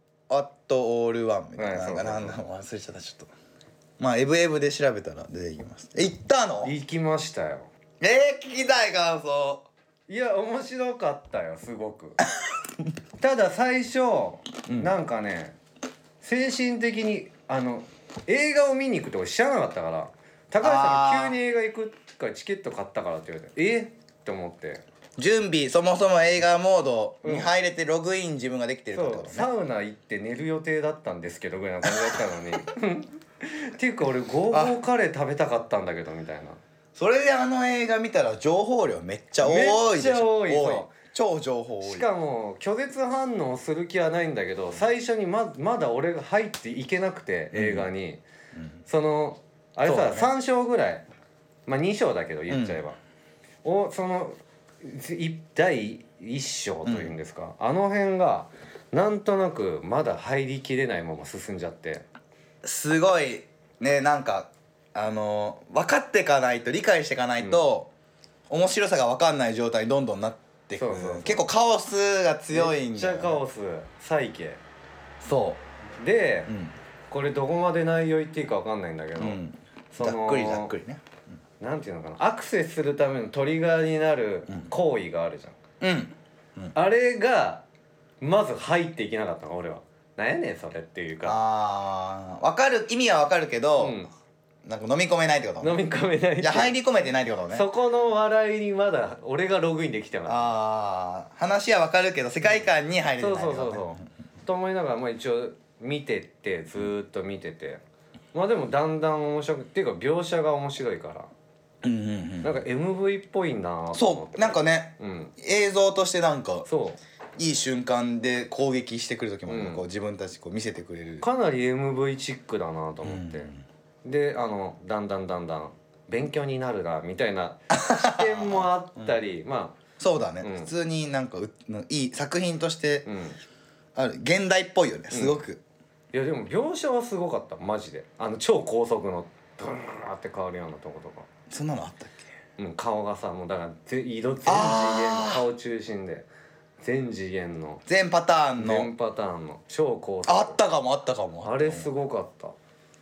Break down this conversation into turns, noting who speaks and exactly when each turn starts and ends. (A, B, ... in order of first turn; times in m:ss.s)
0:00.3-0:03.3 A
0:01.6-0:02.4 B
0:04.0-0:06.7 A
0:06.6-0:07.7 B
0:08.0-0:09.7 A
0:10.1-0:12.2 B
0:13.2-0:15.6 B
0:14.7-0:14.9 A
0:16.2-0:24.8 B
0:20.6-0:21.4 A
0:25.2-0:29.5 A
0:27.2-0:27.5 B
0:28.9-0:36.6 B
0:31.9-0:32.2 A
0:34.5-0:34.8 A
0:37.0-0:42.1 A
0:39.4-0:40.9 B
0:41.8-0:48.2 B
0:47.5-0:47.9 A
0:48.9-0:51.0 B
0:49.8-0:50.3 A
0:51.7-0:53.0 B
0:52.5-0:52.8 A
0:53.6-1:02.1 B
0:56.8-0:57.2 A
1:02.6-1:07.9 A
1:08.5-1:13.4 A
1:10.8-1:11.4 B
1:12.5-1:14.6 B
1:15.2-1:15.6 A
1:16.0-1:16.5 B
1:16.5-1:16.7 A
1:17.1-1:19.4 B
1:19.2-1:21.0 A
1:19.9-1:20.7 B
1:21.6-1:25.6 B
1:25.8-1:26.7 A
1:26.7-1:27.6 B
1:28.2-1:31.4 B
1:31.3-1:34.0 A
1:33.8-1:34.1 B
1:34.6-1:35.8 A
1:35.6-1:36.7 B
1:36.4-1:37.7 A
1:37.5-1:40.5 B
1:40.3-1:44.0 A
1:43.2-1:47.8 B
1:48.3-1:51.3 B
1:51.8-1:52.6 A
1:52.4-1:55.4 B
1:53.9-1:56.7 A
1:56.7-1:57.0 B
1:57.4-2:01.3 A
1:59.5-1:59.8 B
2:01.2-2:03.5 B
2:03.0-2:03.6 A
2:04.0-2:09.8 B
2:07.7-2:09.1 A
2:10.0-2:13.1 A
2:10.4-2:10.7 B
2:13.1-2:13.4 B
2:14.0-2:15.6 A
2:15.1-2:15.4 B
2:16.1-2:21.3 B
2:21.5-2:22.3 A
2:22.6-2:26.3 B
2:24.5-2:25.5 A
2:26.8-2:27.8 B
2:27.9-2:28.9 A
2:28.6-2:30.6 B
2:30.2-2:31.9 A
2:31.4-2:32.6 B